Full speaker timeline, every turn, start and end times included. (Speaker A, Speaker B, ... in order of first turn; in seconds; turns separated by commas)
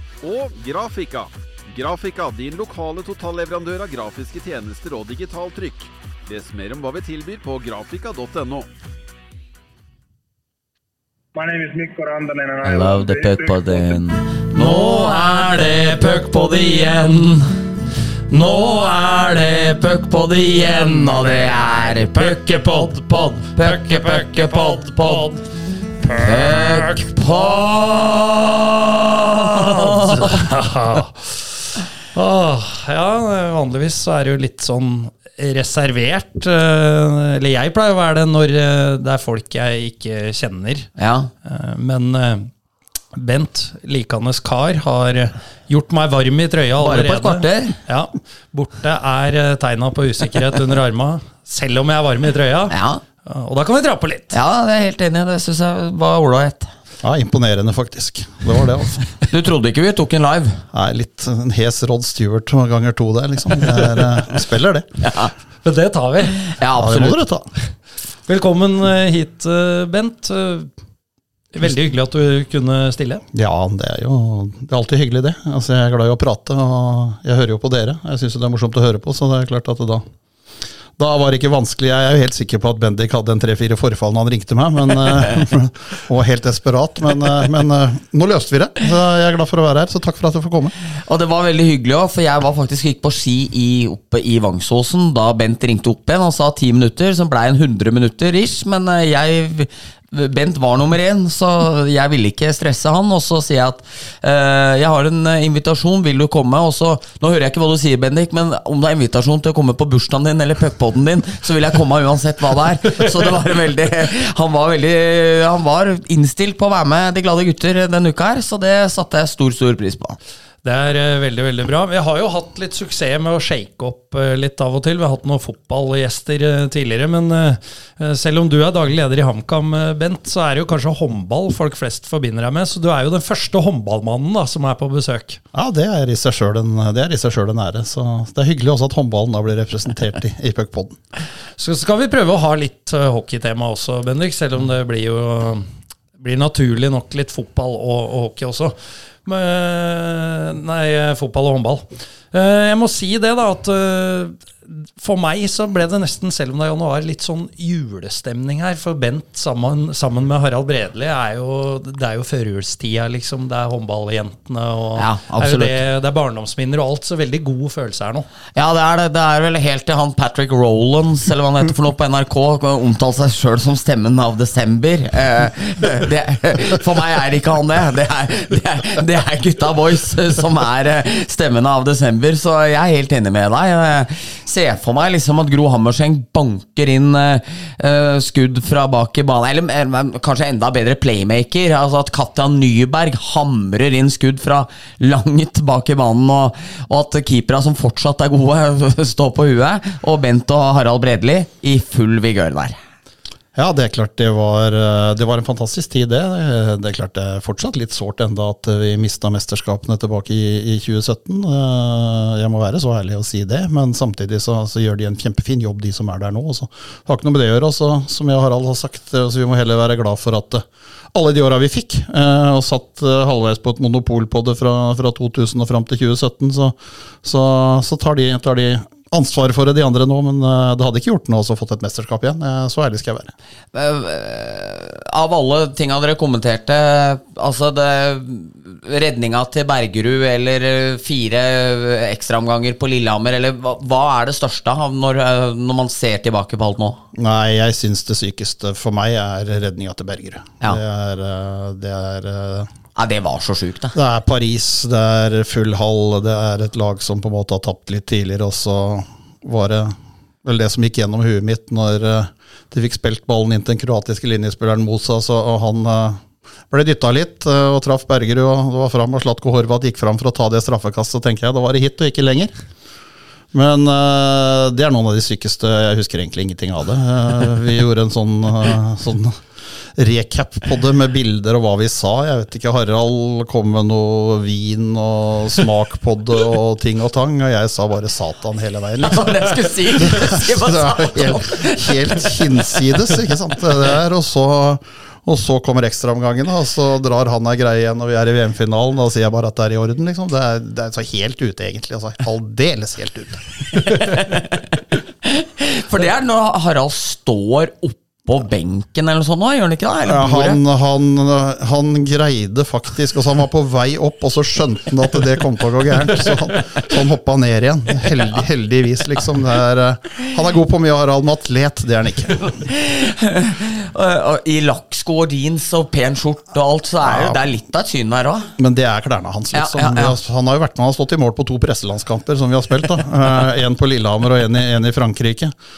Speaker A: 0.2-8.7, Speaker B: 11.3-14.0, Speaker C: 12.6-17.4, Speaker D: 14.5-16.6, Speaker C: 18.3-25.2, Speaker D: 18.3-19.4, Speaker D: 20.9-21.3, Speaker D: 22.1-25.4, Speaker D: 26.0-40.9, Speaker C: 26.2-28.0, Speaker C: 29.5-30.4, Speaker C: 41.0-41.3, Speaker D: 41.4-42.5, Speaker D: 43.1-54.4, Speaker C: 46.8-47.8, Speaker C: 52.7-53.0, Speaker C: 54.3-56.7, Speaker E: 57.0-59.1, Speaker C: 59.3-60.6, Speaker E: 60.7-64.9, Speaker C: 65.0-65.3, Speaker D: 65.6-66.4, Speaker C: 66.4-67.2, Speaker E: 66.8-67.5, Speaker D: 68.3-70.7, Speaker D: 71.5-73.2, Speaker E: 73.3-80.0, Speaker E: 81.0-90.7, Speaker C: 91.0-120.2, Speaker D: 120.6-135.4, Speaker E: 135.5-141.0, Speaker D: 141.6-168.2, Speaker C: 165.0-165.7, Speaker C: 168.5-202.8, Speaker E: 203.5-233.3, Speaker C: 233.7-247.0, Speaker E: 247.1-252.7, Speaker C: 252.9-254.0, Speaker E: 253.9-272.5, Speaker E: 273.5-279.4, Speaker E: 279.9-303.4, Speaker C: 289.0-292.8, Speaker C: 303.8-304.7, Speaker C: 305.2-310.6, Speaker E: 310.0-322.6, Speaker C: 322.6-328.5, Speaker E: 327.0-327.4, Speaker E: 328.6-335.5, Speaker C: 329.5-330.1